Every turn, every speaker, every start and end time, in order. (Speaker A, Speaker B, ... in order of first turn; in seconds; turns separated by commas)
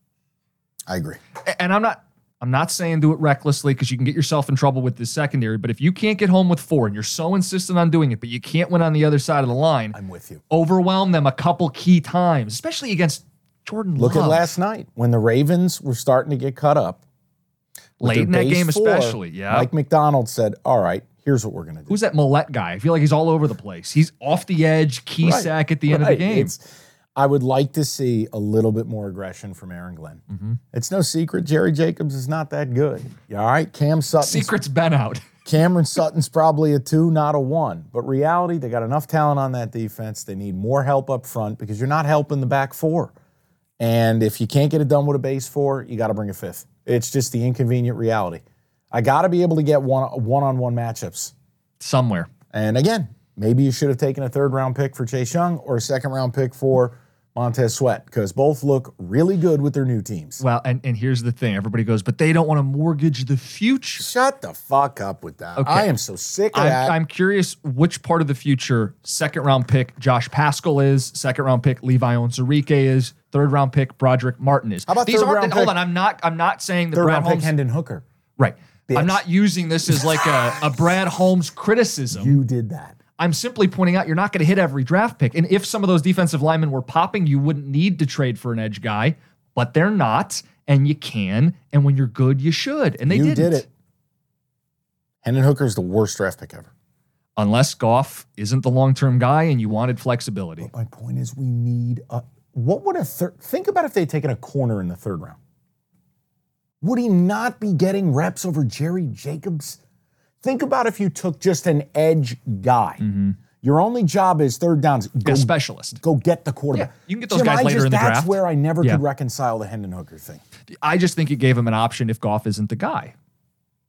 Speaker A: 0.9-1.2, Speaker B: 1.4-9.9, Speaker A: 9.9-10.4, Speaker B: 10.5-14.5, Speaker A: 14.0-17.0, Speaker B: 18.0-19.7, Speaker A: 18.0-22.0, Speaker B: 21.9-26.5, Speaker A: 25.2-26.6, Speaker A: 27.1-34.5, Speaker B: 34.2-35.2, Speaker A: 35.4-43.1, Speaker A: 43.8-51.3, Speaker B: 51.8-52.3, Speaker A: 52.5-60.4, Speaker B: 60.4-64.1, Speaker A: 64.0-67.0, Speaker B: 65.6-65.9, Speaker B: 66.5-77.5, Speaker A: 74.9-75.8, Speaker A: 76.9-78.0, Speaker B: 78.4-82.4, Speaker A: 78.9-79.2, Speaker A: 82.1-83.0, Speaker B: 83.2-93.7, Speaker A: 93.0-93.7, Speaker A: 95.2-96.7, Speaker B: 97.4-100.7, Speaker A: 100.6-105.4, Speaker A: 106.8-109.8, Speaker A: 110.4-113.0, Speaker B: 113.0-113.3, Speaker A: 113.6-120.4, Speaker B: 115.2-116.0, Speaker B: 116.7-119.0, Speaker B: 120.8-123.1